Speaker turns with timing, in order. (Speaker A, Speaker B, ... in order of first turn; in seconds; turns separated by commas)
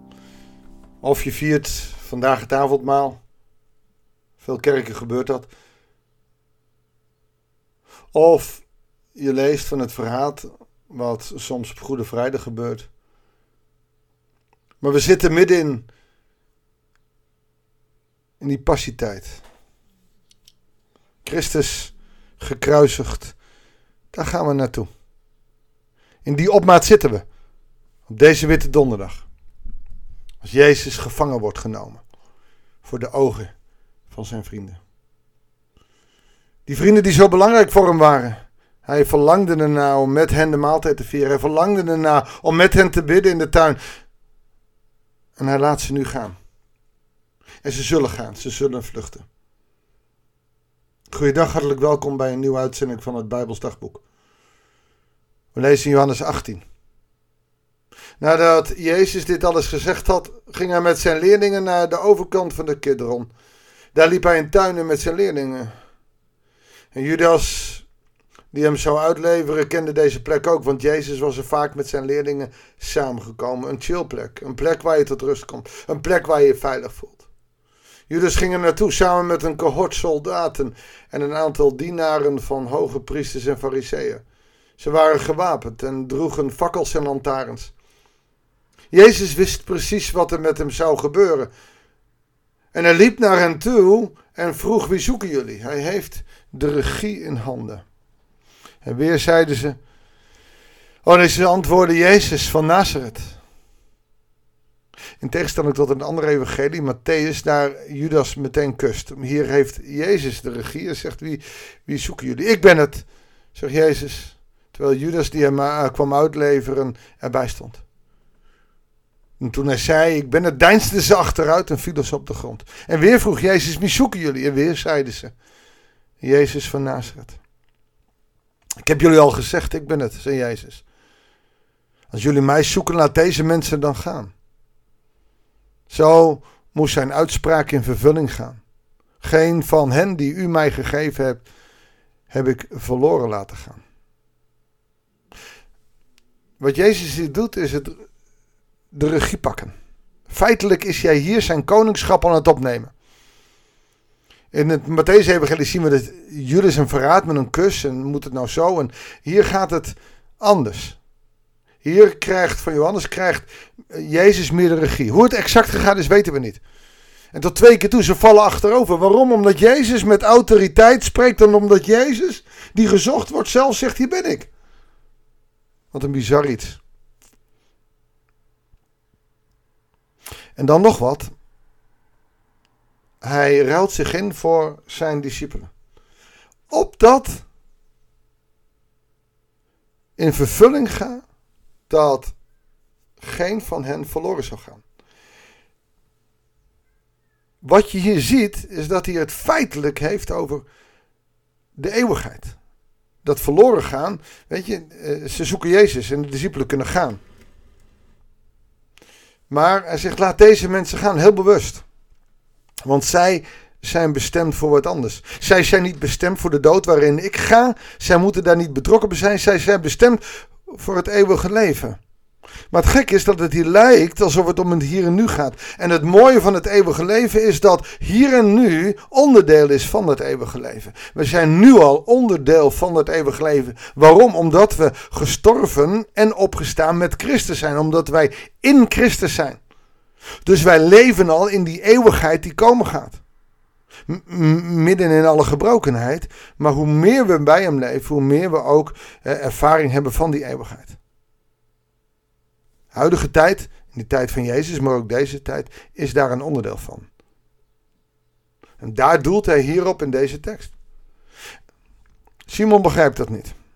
Speaker A: 1.0-3.2, Speaker A: 4.4-5.5, Speaker A: 8.1-8.6, Speaker A: 9.1-12.9, Speaker A: 14.8-15.8, Speaker A: 18.4-19.4, Speaker A: 21.2-23.3, Speaker A: 24.1-24.9, Speaker A: 26.2-27.2, Speaker A: 28.1-29.2, Speaker A: 30.4-32.0, Speaker A: 32.8-33.5, Speaker A: 34.1-34.8, Speaker A: 36.7-43.8, Speaker A: 45.4-46.4, Speaker A: 47.6-49.2, Speaker A: 51.1-54.0, Speaker A: 55.5-56.6, Speaker A: 58.2-63.3, Speaker A: 63.9-65.7, Speaker A: 66.9-67.8, Speaker A: 68.5-77.2, Speaker A: 78.1-84.2, Speaker A: 84.8-87.7, Speaker A: 88.9-91.5, Speaker A: 92.7-97.8, Speaker A: 98.8-99.8, Speaker A: 101.0-103.4, Speaker A: 105.2-117.8, Speaker A: 119.4-125.3, Speaker A: 126.2-127.4, Speaker A: 128.8-130.8, Speaker A: 132.1-134.3, Speaker A: 135.9-138.6, Speaker A: 139.2-141.4, Speaker A: 142.3-143.8, Speaker A: 146.6-148.1, Speaker A: 148.9-149.7, Speaker A: 150.3-152.9, Speaker A: 154.5-161.0, Speaker A: 161.8-166.6, Speaker A: 167.3-174.5, Speaker A: 175.9-176.8, Speaker A: 180.6-181.3, Speaker A: 183.2-185.7, Speaker A: 186.7-187.4, Speaker A: 190.2-191.2, Speaker A: 191.9-192.3, Speaker A: 193.2-194.8, Speaker A: 197.6-200.7, Speaker A: 201.8-202.6, Speaker A: 203.2-207.2, Speaker A: 209.5-211.8, Speaker A: 212.8-222.0, Speaker A: 222.7-239.6, Speaker A: 240.4-243.2, Speaker A: 244.1-251.0, Speaker A: 252.9-257.1, Speaker A: 258.8-260.7, Speaker A: 262.5-263.5